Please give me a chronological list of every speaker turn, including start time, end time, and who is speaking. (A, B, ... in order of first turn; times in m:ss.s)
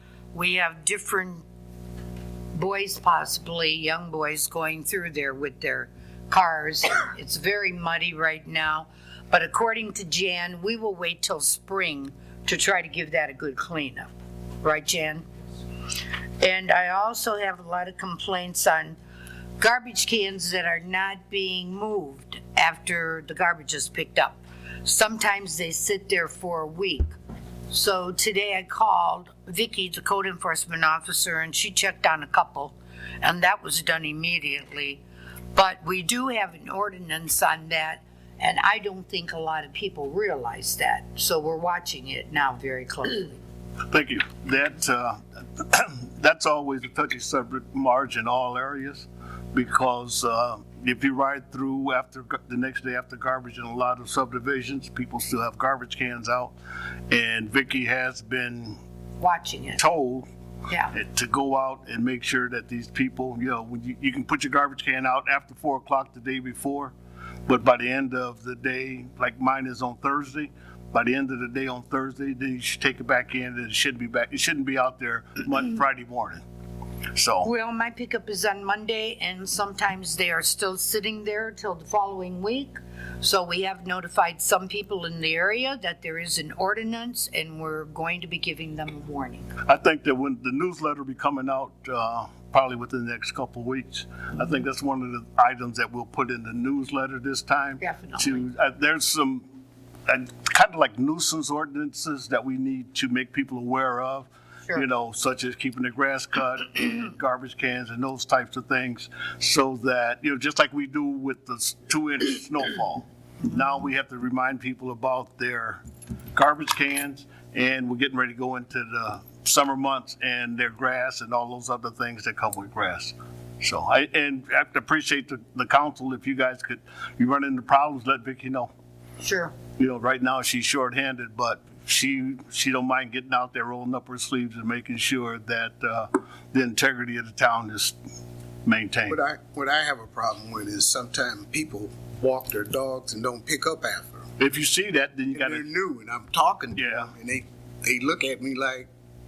0:00.3-0:01.4 A
0:02.5-0:14.1 A
0:14.6-0:15.2 A
0:16.4-0:19.0 A
0:19.6-0:27.1 A
0:27.7-0:35.0 A
0:35.5-0:43.4 A
0:43.9-0:56.5 B
0:57.1-0:58.8 B
0:59.2-0:59.8 A
0:59.8-1:00.3 B
1:00.9-1:06.9 B
1:07.4-1:16.4 B
1:17.1-1:17.5 B
1:17.4-1:29.5 A
1:29.6-1:39.4 B
1:37.8-1:38.4 A
1:40.1-1:55.8 B
1:56.3-2:08.7 B
2:09.2-2:09.5 A
2:09.8-2:18.0 B
2:18.6-2:19.2 B
2:19.1-2:24.3 C
2:24.4-2:25.7 B
2:25.3-2:28.9 C
2:26.8-2:27.1 B